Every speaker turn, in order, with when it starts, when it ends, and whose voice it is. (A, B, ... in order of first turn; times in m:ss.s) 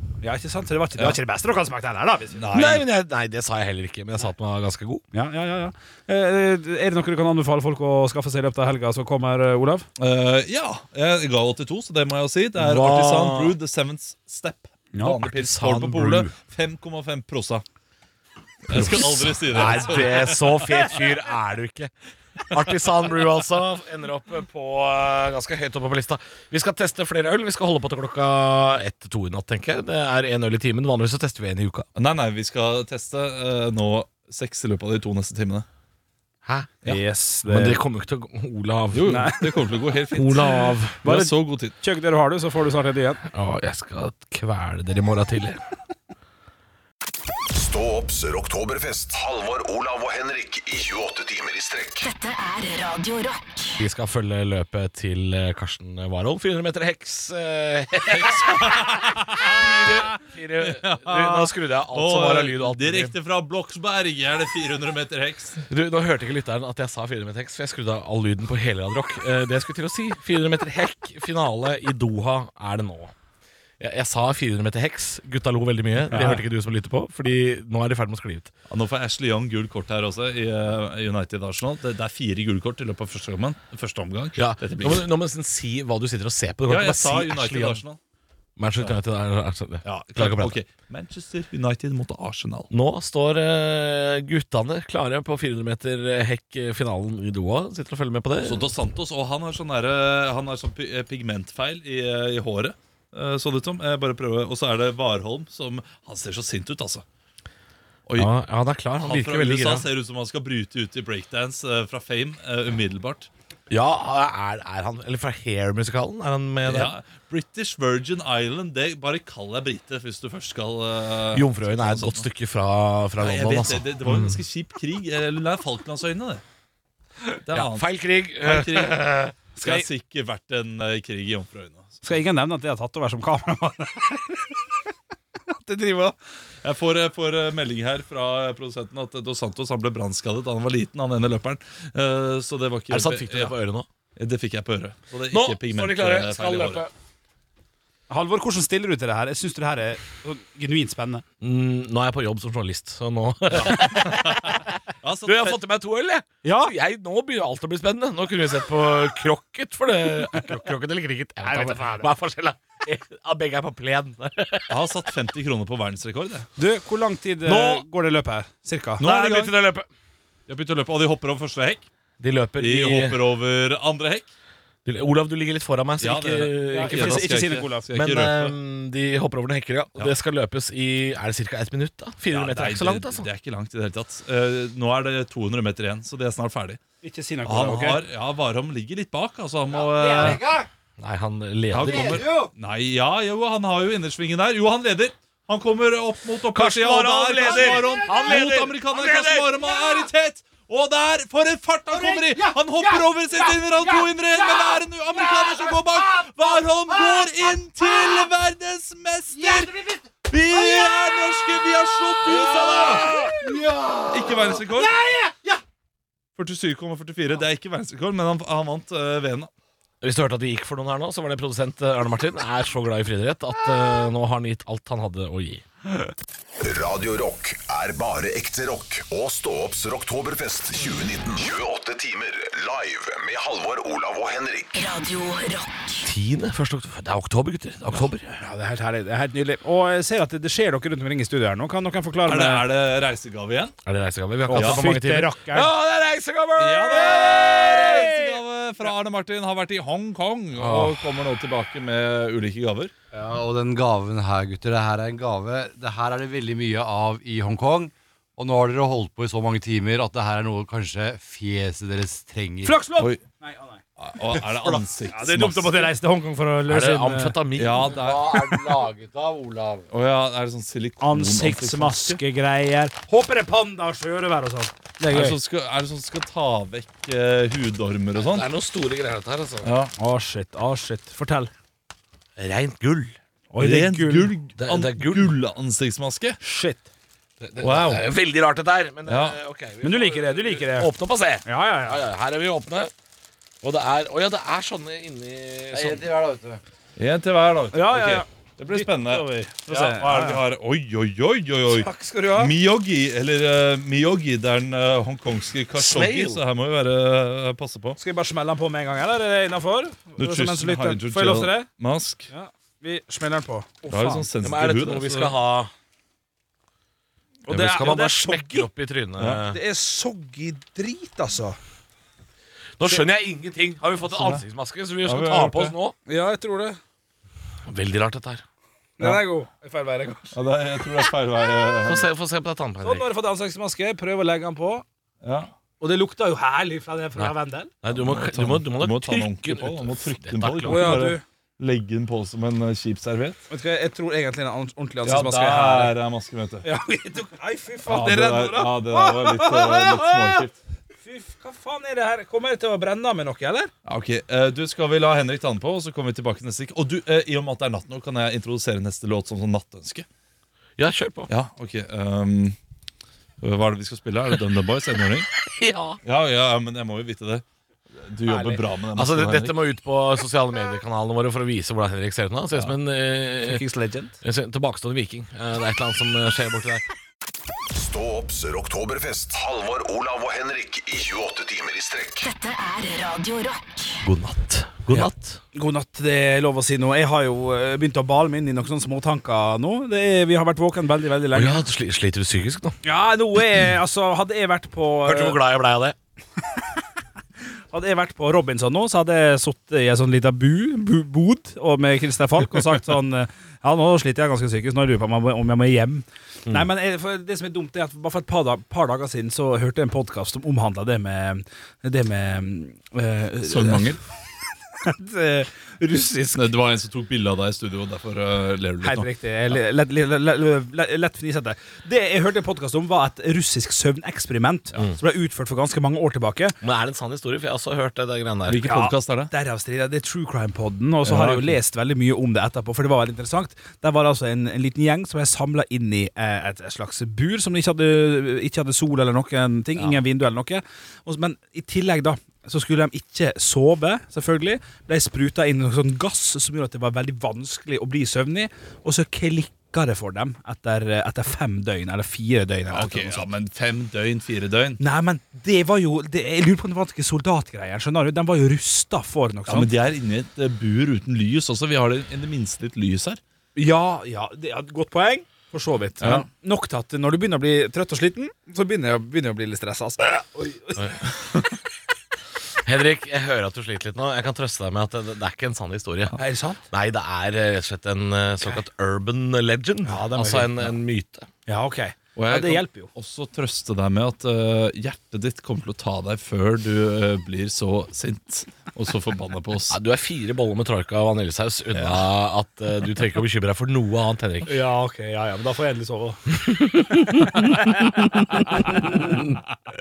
0:00.2-0:02.5 A
0:02.4-0:02.9 B
0:02.5-0:05.0 C
0:05.1-0:09.9 A
0:10.0-0:17.6 B
0:12.6-0:13.6 C
0:14.9-0:15.2 A
0:15.2-0:16.3 C
0:18.7-0:21.0 B
0:18.7-0:31.9 C
0:32.0-0:35.7 B
0:36.4-0:36.9 C
0:36.8-0:37.8 A
0:37.4-0:39.3 C
0:38.9-0:41.7 B
0:39.1-0:39.4 A
0:40.2-0:41.0 C
0:41.0-0:43.2 A
0:43.3-0:45.6 C
0:47.5-0:52.1 D
0:52.0-0:53.8 E
0:53.8-1:03.1 C
0:58.1-1:05.6 B
1:05.7-1:13.1 C
1:13.8-1:18.5 C
1:16.0-1:16.4 B
1:16.1-1:16.4 A
1:18.7-1:25.1 B
1:24.4-1:27.8 C
1:26.7-1:28.0 B
1:28.6-1:30.6 C
1:29.8-1:32.7 B
1:32.7-1:38.6 C
1:38.4-1:47.0 B
1:48.2-1:49.9 C
1:49.0-1:53.3 B
1:53.7-1:56.9 C
1:56.7-2:02.3 B
2:01.3-2:04.4 C
2:03.2-2:06.4 B
2:07.4-2:07.9 B
2:07.5-2:09.4 C
2:08.4-2:09.0 B
2:09.6-2:09.9 A
2:09.6-2:12.0 B
2:12.0-2:14.6 A
2:15.5-2:16.1 A
2:16.6-2:23.5 B
2:22.9-2:23.9 C
2:24.2-2:26.8 B
2:25.3-2:26.9 C
2:28.1-2:31.2 A
2:31.4-2:44.8 C
2:33.6-2:35.6 B
2:36.4-2:36.7 A
2:41.4-2:42.1 A
2:44.7-2:46.5 B
2:46.6-2:49.1 A
2:47.4-2:47.8 C
2:49.0-2:49.6 B
2:49.0-2:49.9 C
2:50.5-2:51.9 B
2:52.2-2:53.2 C
2:52.6-2:54.3 B
2:54.9-3:03.3 C
2:56.0-2:58.6 B
2:56.7-2:57.9 A
3:02.3-3:06.8 B
3:07.0-3:08.0 A
3:07.4-3:10.4 B
3:10.0-3:10.7 F
3:11.0-3:12.3 C
3:11.7-3:33.1 B
3:12.1-3:12.5 F
3:16.5-3:19.6 C
3:32.3-3:33.4 C
3:33.6-3:34.1 F
3:34.1-3:35.0 B
3:36.4-3:39.5 B
3:40.0-3:45.6 C
3:46.6-3:54.8 D
3:54.7-3:56.0 E
3:56.0-3:58.4 C
3:58.4-4:02.6 A
4:02.3-4:03.7 B
4:03.9-4:08.3 C
4:04.5-4:05.7 A
4:04.5-4:04.9 B
4:06.6-4:12.9 B
4:10.6-4:11.0 C
4:13.1-4:22.8 F
4:22.6-4:27.4 A
4:24.0-4:25.9 B
4:26.7-4:28.0 C
4:27.6-4:28.8 B
4:27.9-4:29.9 F
4:29.9-4:32.2 B
4:31.0-4:35.4 A
4:35.1-4:38.4 B
4:38.2-4:39.7 C
4:39.6-4:39.9 B
4:40.0-4:41.5 A
4:42.4-4:43.1 C
4:43.5-4:44.3 A
4:43.6-4:46.4 B
4:44.6-4:45.3 C
4:46.4-4:46.9 A
4:47.4-4:52.9 C
4:47.6-4:48.0 B
4:49.0-4:49.4 B
4:49.8-4:50.9 A
4:51.4-4:52.0 A
4:53.6-4:56.0 C
4:55.7-4:56.6 F
4:57.0-5:08.0 B
4:57.7-5:00.4 A
5:01.7-5:02.5 A
5:05.8-5:06.4 C
5:08.0-5:11.7 A
5:10.2-5:12.3 B
5:12.3-5:14.3 A
5:13.9-5:15.4 B
5:14.4-5:15.7 C
5:17.5-5:18.7 A
5:17.5-5:19.6 C
5:19.2-5:19.4 B
5:19.5-5:21.6 A
5:22.8-5:26.0 C
5:24.1-5:24.4 B
5:25.0-5:25.7 B
5:26.1-5:26.8 A
5:27.7-5:28.4 C
5:29.0-5:30.4 A
5:30.3-5:32.1 B
5:31.8-5:33.1 C
5:32.8-5:34.8 A
5:35.2-5:35.5 B
5:35.8-5:37.7 A
5:37.8-5:41.0 C
5:37.9-5:43.4 B
5:40.7-5:41.2 A
5:43.5-5:46.0 A
5:45.0-5:46.7 B
5:46.6-5:50.4 A
5:47.9-5:50.6 B
5:51.0-5:53.7 A
5:53.8-6:00.1 B
6:00.8-6:01.3 C
6:01.3-6:02.6 B
6:03.4-6:05.3 B
6:05.4-6:06.0 C
6:06.0-6:09.6 B
6:09.0-6:13.6 C
6:13.4-6:14.2 A
6:14.2-6:16.8 C
6:17.7-6:22.3 D
6:22.2-6:24.0 E
6:24.0-6:25.4 C
6:25.0-6:31.6 A
6:31.3-6:32.8 C
6:32.8-6:35.4 A
6:35.0-6:36.0 C
6:37.7-6:54.0 A
6:53.4-6:54.0 B
6:54.8-6:56.5 A
6:56.3-6:59.1 B
6:58.8-7:06.6 A
7:06.6-7:08.7 C
7:08.5-7:09.3 B
7:08.6-7:33.3 A
7:11.0-7:11.6 B
7:32.7-7:34.8 B
7:34.8-7:39.7 A
7:39.5-7:43.2 B
7:43.6-7:50.9 A
7:46.0-7:46.3 B
7:52.6-7:56.1 C
7:56.2-7:56.6 A
7:56.7-8:01.3 C
7:59.9-8:00.5 A
8:01.5-8:02.9 A
8:02.2-8:09.8 B
8:09.7-8:14.5 C
8:11.7-8:12.1 B
8:14.4-8:16.4 A
8:16.8-8:17.1 C
8:17.1-8:19.0 A
8:18.8-8:19.2 C